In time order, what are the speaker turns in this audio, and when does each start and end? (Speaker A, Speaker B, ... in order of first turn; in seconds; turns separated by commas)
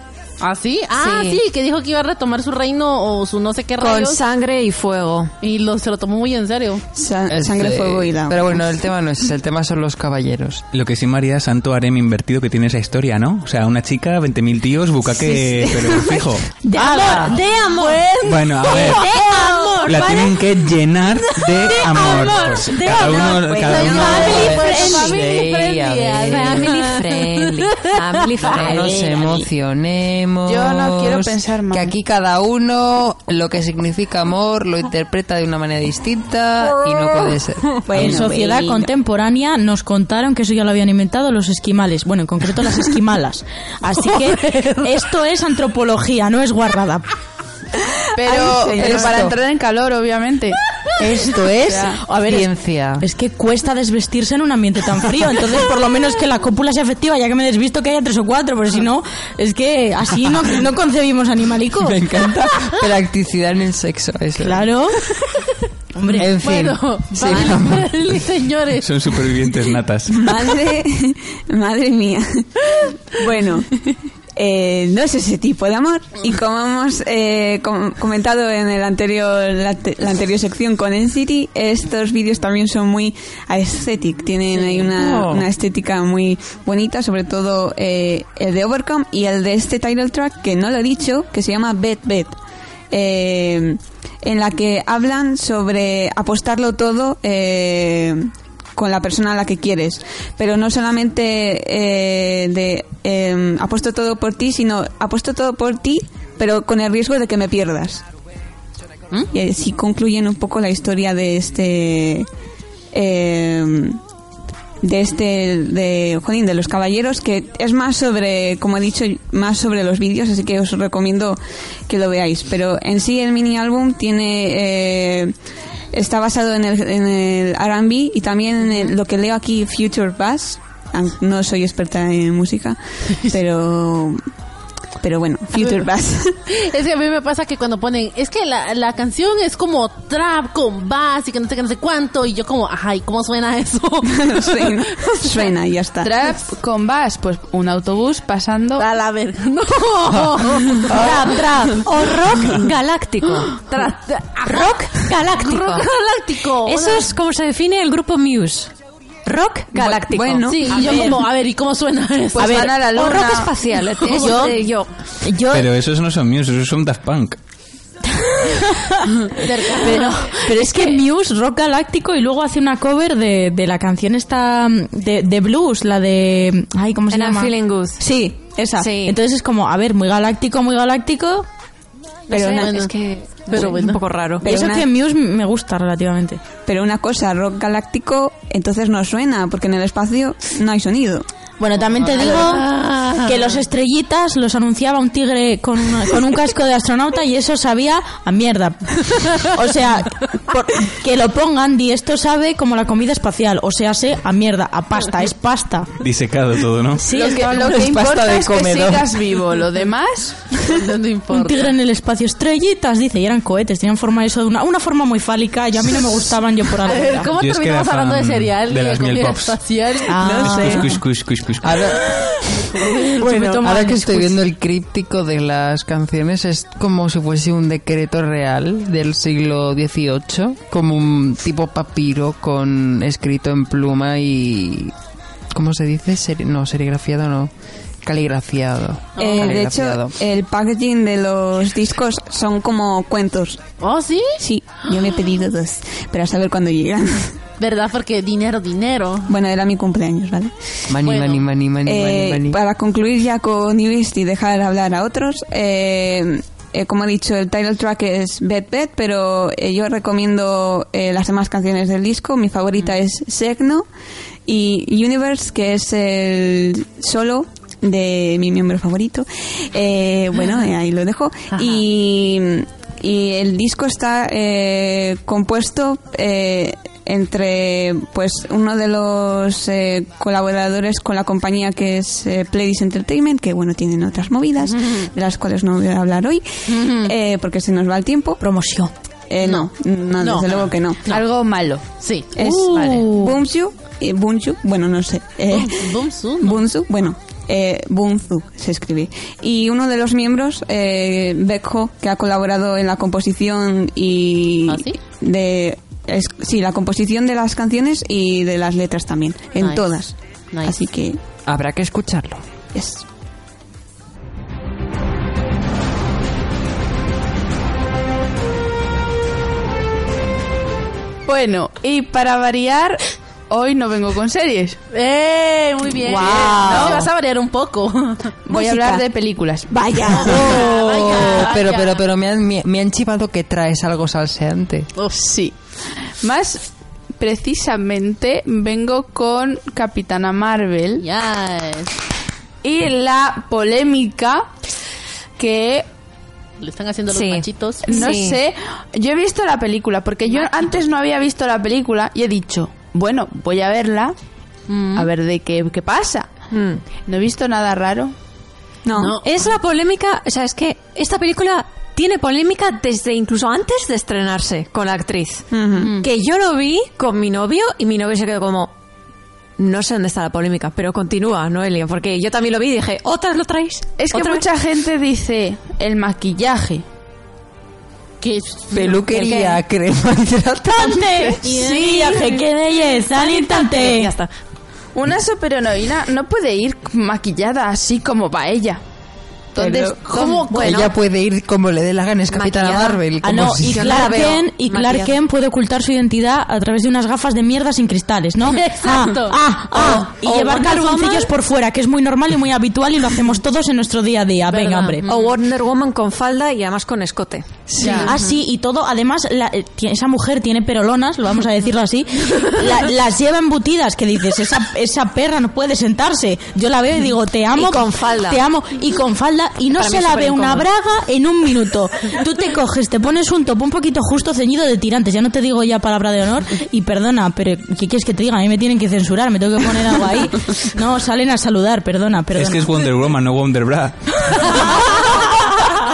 Speaker A: 0.4-4.2, Speaker B: 0.9-1.4, Speaker B: 3.8-5.3, Speaker A: 5.4-6.8, Speaker C: 6.9-8.6, Speaker D: 7.3-10.6, Speaker E: 10.7-16.5, Speaker F: 16.6-17.9, Speaker B: 16.8-18.0, Speaker A: 16.8-19.1, Speaker E: 18.2-19.0, Speaker F: 18.6-20.2, Speaker B: 18.7-20.4, Speaker E: 19.9-24.5, Speaker F: 21.6-25.1, Speaker B: 21.7-22.5, Speaker A: 23.5-28.7, Speaker D: 24.0-26.8, Speaker B: 26.2-29.5, Speaker D: 28.4-38.3, Speaker G: 30.4-31.9, Speaker C: 37.9-38.9, Speaker F: 37.9-47.0, Speaker A: 43.9-45.0, Speaker G: 48.1-50.6, Speaker C: 48.2-49.3, Speaker D: 48.6-49.4, Speaker D: 51.0-53.0, Speaker F: 51.4-52.5, Speaker G: 51.6-52.0, Speaker F: 53.0-62.1, Speaker D: 61.8-64.7, Speaker F: 64.4-65.0, Speaker F: 65.9-66.4, Speaker A: 66.0-69.2, Speaker D: 66.2-67.9, Speaker E: 68.8-70.3, Speaker C: 70.1-92.4, Speaker D: 84.9-85.5, Speaker C: 92.9-108.0, Speaker C: 109.3-112.3, Speaker C: 112.9-114.0, Speaker C: 114.8-125.3, Speaker C: 125.9-134.2, Speaker C: 135.0-136.4, Speaker A: 136.5-145.5, Speaker C: 144.1-146.2, Speaker G: 146.0-148.9, Speaker A: 148.8-151.3, Speaker F: 150.9-151.9, Speaker B: 151.0-153.9, Speaker A: 153.7-157.1, Speaker B: 154.4-155.9, Speaker B: 156.6-158.7, Speaker B: 159.2-160.8, Speaker C: 159.7-160.9, Speaker A: 160.5-162.7, Speaker F: 160.8-161.2, Speaker G: 162.3-163.5, Speaker F: 162.4-162.8, Speaker B: 162.8-164.9, Speaker A: 164.0-164.6, Speaker F: 164.2-164.5, Speaker F: 165.2-165.7, Speaker E: 165.5-167.4, Speaker F: 168.2-181.5, Speaker A: 169.3-170.5, Speaker B: 177.1-178.0, Speaker B: 178.8-179.2, Speaker B: 182.3-184.5, Speaker C: 182.3-182.7, Speaker A: 182.4-182.9, Speaker A: 183.5-184.0, Speaker C: 184.4-184.9, Speaker F: 184.4-186.4, Speaker C: 186.7-191.2, Speaker F: 191.6-205.9, Speaker A: 191.9-193.6, Speaker E: 206.0-207.1, Speaker F: 207.0-207.9, Speaker G: 207.1-210.4, Speaker D: 207.5-209.2, Speaker A: 210.5-211.7, Speaker F: 211.3-217.3, Speaker A: 216.8-220.3, Speaker E: 217.3-219.6, Speaker F: 220.0-221.0, Speaker D: 220.2-221.0, Speaker E: 220.3-221.9, Speaker D: 221.6-222.2, Speaker A: 222.7-223.1, Speaker F: 222.9-224.4, Speaker D: 223.2-234.9, Speaker D: 235.5-237.5, Speaker D: 238.0-240.2, Speaker A: 239.2-239.6, Speaker C: 239.2-243.6, Speaker A: 243.8-245.0, Speaker C: 244.4-247.4, Speaker A: 247.6-249.3, Speaker C: 249.3-250.5, Speaker D: 250.9-252.6, Speaker A: 251.0-251.4, Speaker C: 251.8-263.9, Speaker C: 264.5-288.4, Speaker A: 284.7-285.1, Speaker A: 286.7-287.1, Speaker F: 288.4-288.9, Speaker C: 289.3-291.1, Speaker A: 289.4-291.2, Speaker G: 291.1-291.9, Speaker A: 292.0-293.1, Speaker C: 292.4-311.2, Speaker F: 292.4-293.4, Speaker A: 295.5-296.6, Speaker A: 304.7-305.0, Speaker A: 309.6-309.9, Speaker A: 310.5-310.8, Speaker D: 311.5-312.4, Speaker C: 312.7-313.0, Speaker G: 321.2-324.8, Speaker A: 324.9-328.3, Speaker F: 326.0-327.1, Speaker G: 326.2-327.0, Speaker G: 328.5-330.4, Speaker C: 328.5-329.0, Speaker F: 329.7-330.7, Speaker A: 330.1-332.0, Speaker D: 330.2-334.9, Speaker G: 335.1-335.6, Speaker G: 336.2-341.1, Speaker A: 341.0-341.9, Speaker G: 342.6-344.5, Speaker G: 345.4-345.9, Speaker A: 346.6-348.1, Speaker B: 347.1-348.4, Speaker G: 347.9-354.1, Speaker A: 350.3-350.8, Speaker A: 354.7-355.1, Speaker G: 354.9-356.3, Speaker B: 356.5-356.8, Speaker G: 357.1-358.1, Speaker C: 358.9-359.2, Speaker A: 358.9-359.2, Speaker B: 359.2-368.7, Speaker C: 365.5-366.0, Speaker B: 369.6-374.5, Speaker G: 374.0-376.8, Speaker A: 378.2-379.4, Speaker D: 378.7-381.4, Speaker B: 379.1-379.6, Speaker F: 380.7-384.1, Speaker B: 381.7-382.1, Speaker B: 383.1-384.3, Speaker G: 384.9-388.8, Speaker G: 389.5-390.5, Speaker C: 389.6-390.0, Speaker A: 390.0-390.9, Speaker B: 390.4-390.9, Speaker D: 390.5-394.1, Speaker B: 392.3-393.0, Speaker F: 393.2-405.1, Speaker B: 393.6-395.2, Speaker A: 398.5-400.1, Speaker B: 399.8-401.3, Speaker A: 404.5-405.3, Speaker B: 405.1-408.4, Speaker D: 407.7-408.0, Speaker A: 407.8-408.1, Speaker F: 407.9-432.8, Speaker B: 417.5-418.4, Speaker B: 419.7-420.7, Speaker E: 432.3-434.7, Speaker F: 434.4-435.7